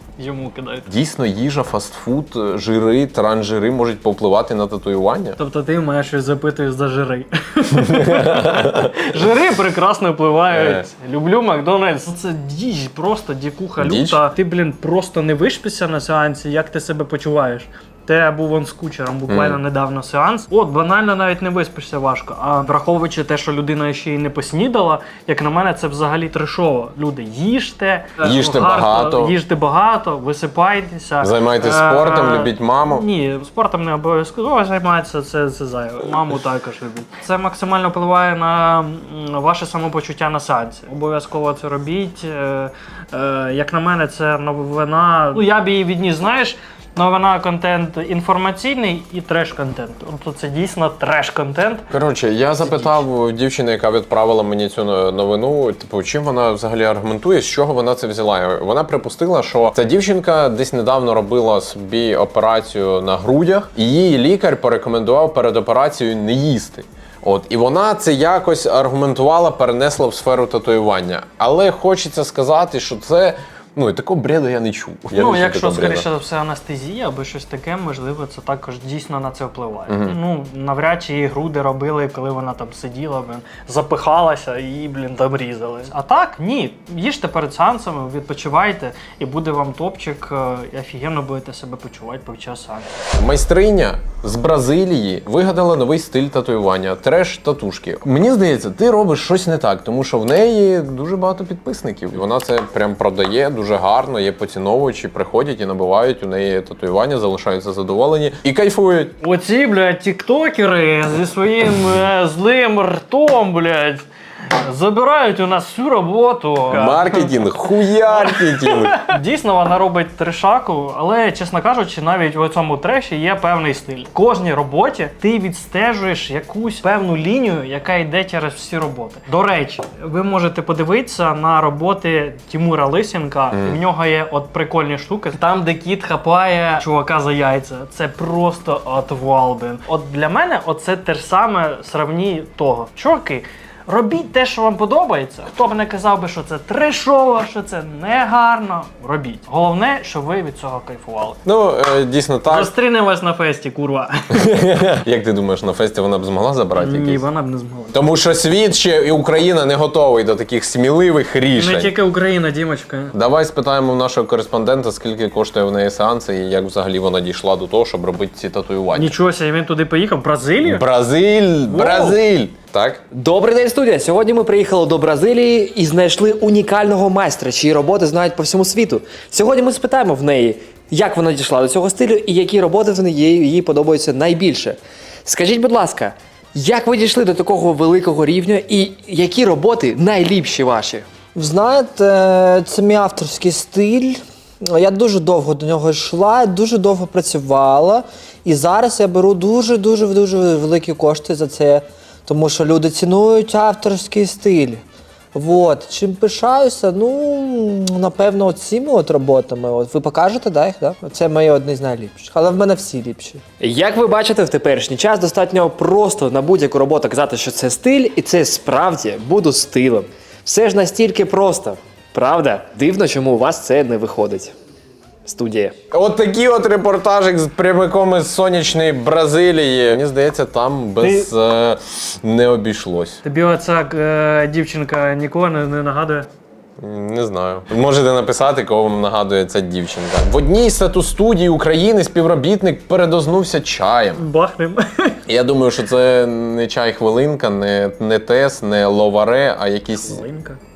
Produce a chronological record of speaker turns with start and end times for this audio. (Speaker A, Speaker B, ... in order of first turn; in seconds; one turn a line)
Speaker A: 0.2-0.9
Speaker B: 0.9-5.4
Speaker A: 5.4-51.9
Speaker B: 7.9-8.9
Speaker B: 10.5-10.8
Speaker B: 13.8-14.2
Speaker B: 19.3-19.6
Speaker B: 28.2-29.3
Speaker B: 31.2-33.1
Speaker B: 51.9-76.1
Speaker A: 52.6-53.0
Speaker A: 75.1-92.9
Speaker B: 79.9-80.2
Speaker B: 93.1-109.2
Speaker A: 109.2-117.3
Speaker B: 116.7-119.1
Speaker A: 118.1-151.4
Speaker B: 133.5-133.8
Speaker B: 151.4-152.7
Speaker A: 152.5-154.4
Speaker B: 154.4-157.2
Speaker A: 156.8-158.0
Speaker B: 157.9-161.9
Speaker A: 161.5-163.1
Speaker B: 163.1-169.2
Speaker A: 168.9-170.8
Speaker B: 170.6-173.0
Speaker C: 171.7-172.2
Speaker C: 173.1-191.1
Speaker D: 191.3-204.8
Speaker D: 205.3-213.4
Speaker C: 213.6-224.5
Speaker C: 225.3-225.7
Speaker B: 225.9-233.2
Speaker A: 231.0-231.3
Speaker A: 233.2-236.3
Speaker B: 236.8-244.2
Speaker A: 244.2-245.2
Speaker B: 245.3-250.2
Speaker A: 249.9-250.6